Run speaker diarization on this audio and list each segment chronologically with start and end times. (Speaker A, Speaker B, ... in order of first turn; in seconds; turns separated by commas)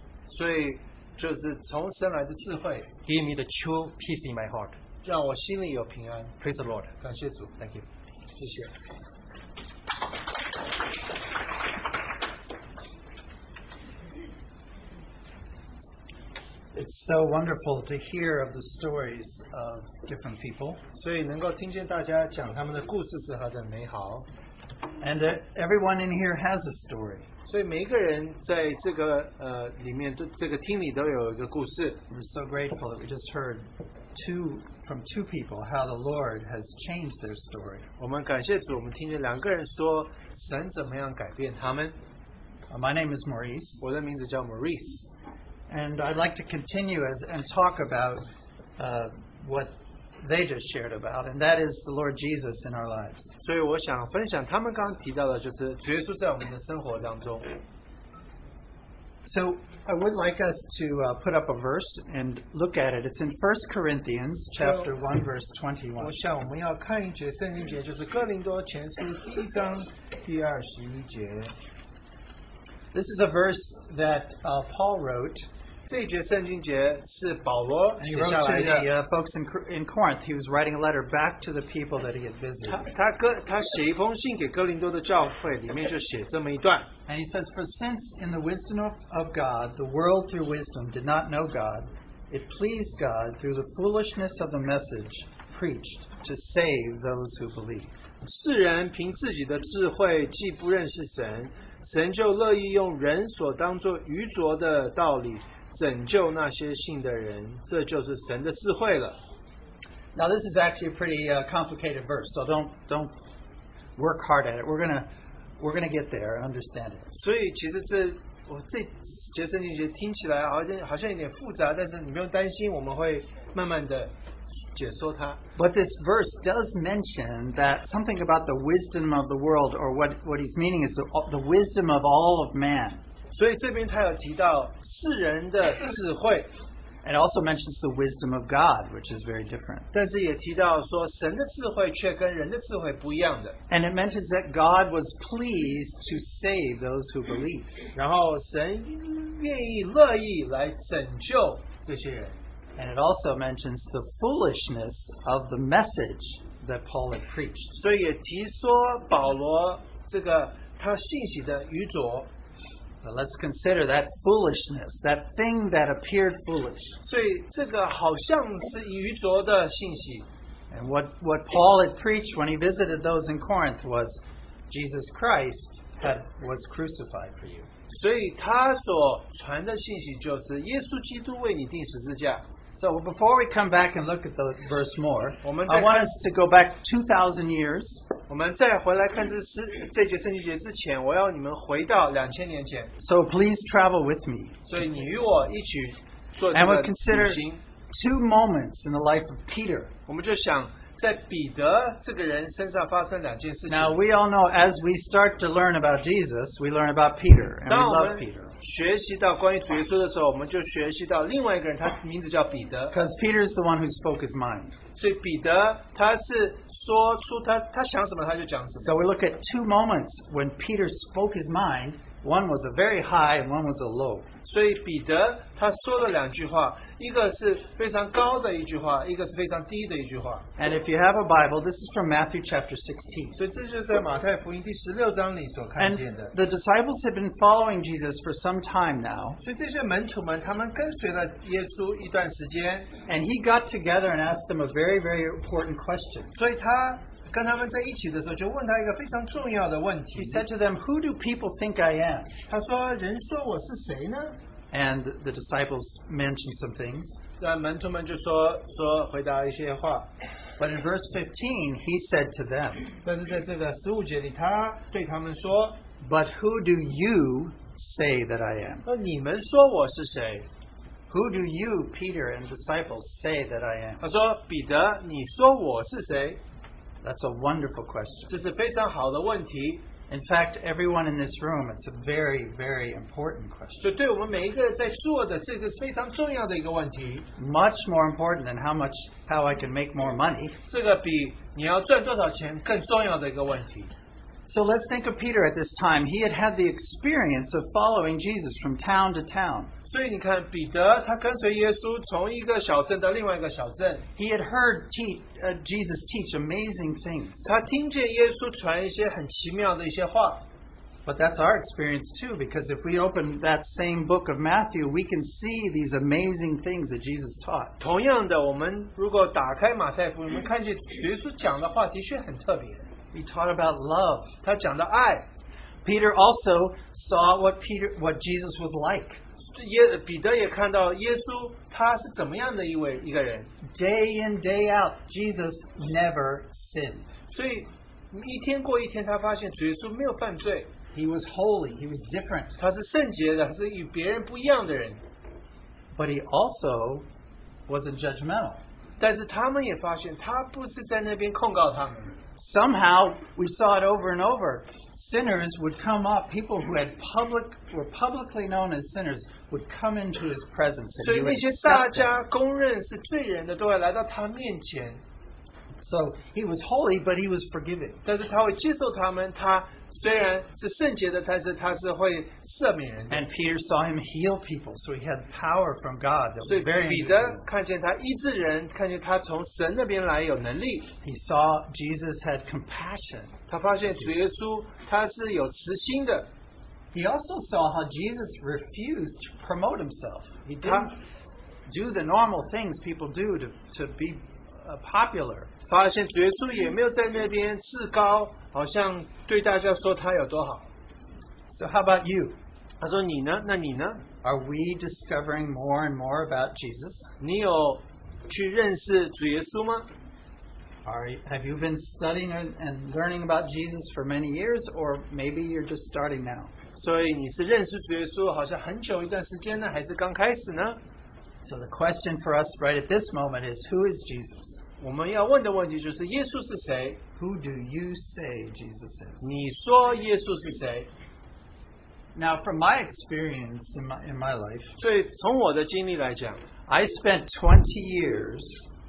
Speaker A: 0.3-2.9, Speaker B: 3.0-4.8, Speaker A: 5.0-6.3, Speaker B: 6.4-6.9, Speaker A: 7.0-7.6, Speaker A: 8.4-8.7, Speaker C: 16.7-20.8, Speaker A: 20.9-24.3, Speaker C: 25.0-27.3, Speaker A: 27.5-32.0, Speaker C: 32.1-37.9, Speaker A: 38.0-42.0, Speaker C: 42.7-43.8, Speaker A: 43.8-45.1, Speaker C: 45.7-48.3, Speaker C: 48.8-53.3, Speaker A: 53.4-57.5, Speaker C: 59.2-66.2, Speaker A: 64.6-64.9, Speaker A: 66.0-71.5, Speaker C: 72.9-75.4, Speaker A: 75.9-78.9, Speaker C: 78.0-82.9, Speaker A: 82.6-86.9, Speaker C: 87.1-97.9, Speaker A: 98.2-109.2, Speaker C: 110.1-113.2, Speaker C: 114.0-117.1, Speaker A: 117.1-124.1, Speaker A: 124.8-125.4, Speaker C: 125.6-133.0, Speaker A: 133.3-136.5, Speaker C: 137.0-139.9, Speaker A: 139.9-143.6, Speaker C: 143.7-147.8, Speaker A: 147.9-152.4, Speaker C: 152.8-157.7, Speaker A: 157.7-162.3, Speaker C: 163.0-167.0, Speaker A: 167.0-170.3, Speaker C: 170.7-177.7, Speaker A: 177.9-182.4, Speaker C: 182.8-188.0, Speaker A: 185.4-186.2, Speaker A: 188.3-192.9, Speaker C: 193.0-194.7, Speaker A: 194.7-197.6, Speaker C: 196.5-199.9, Speaker A: 200.1-204.0, Speaker C: 203.7-208.6, Speaker A: 207.7-213.0, Speaker C: 212.9-214.8, Speaker A: 215.0-218.9, Speaker C: 218.8-224.3, Speaker A: 224.4-230.5, Speaker C: 230.6-233.4, Speaker A: 233.3-236.3, Speaker C: 235.8-239.4, Speaker A: 239.4-242.9, Speaker C: 243.1-246.3, Speaker A: 246.4-250.4, Speaker C: 250.2-252.4, Speaker A: 252.5-254.4, Speaker C: 254.7-257.2, Speaker A: 257.4-260.1, Speaker C: 260.6-262.9, Speaker A: 263.0-265.8, Speaker C: 266.0-268.9, Speaker A: 268.9-270.5, Speaker C: 271.1-274.0, Speaker A: 274.0-276.4, Speaker C: 277.0-278.4, Speaker A: 278.3-279.9, Speaker C: 280.1-283.9, Speaker A: 283.8-287.3, Speaker C: 287.4-290.6, Speaker A: 290.7-293.9, Speaker C: 294.5-299.7, Speaker A: 299.9-304.1, Speaker C: 304.2-307.5, Speaker A: 307.4-310.4, Speaker C: 311.1-317.7, Speaker A: 317.8-322.9, Speaker C: 323.1-324.4, Speaker A: 324.4-325.2, Speaker C: 325.9-329.2, Speaker A: 329.5-333.5, Speaker C: 333.7-337.1, Speaker A: 337.3-340.7, Speaker C: 340.9-342.6, Speaker A: 342.6-345.0, Speaker C: 345.9-347.1, Speaker C: 347.7-348.6, Speaker A: 349.0-352.2, Speaker C: 352.4-362.1, Speaker A: 361.0-365.0, Speaker C: 365.8-368.0, Speaker A: 368.1-373.3, Speaker C: 373.1-377.4, Speaker A: 376.5-380.9, Speaker C: 381.0-383.3, Speaker A: 383.5-386.3, Speaker C: 386.9-390.9, Speaker A: 390.5-390.9, Speaker C: 391.7-395.5, Speaker A: 395.7-400.7, Speaker C: 401.5-402.4, Speaker A: 402.8-404.0, Speaker C: 404.2-407.1, Speaker A: 407.2-409.9, Speaker C: 410.9-416.5, Speaker A: 416.8-420.8, Speaker C: 421.4-424.6, Speaker A: 424.8-427.0, Speaker C: 427.2-429.3, Speaker A: 429.2-430.9, Speaker C: 432.2-434.7, Speaker A: 434.8-436.4, Speaker C: 436.7-438.6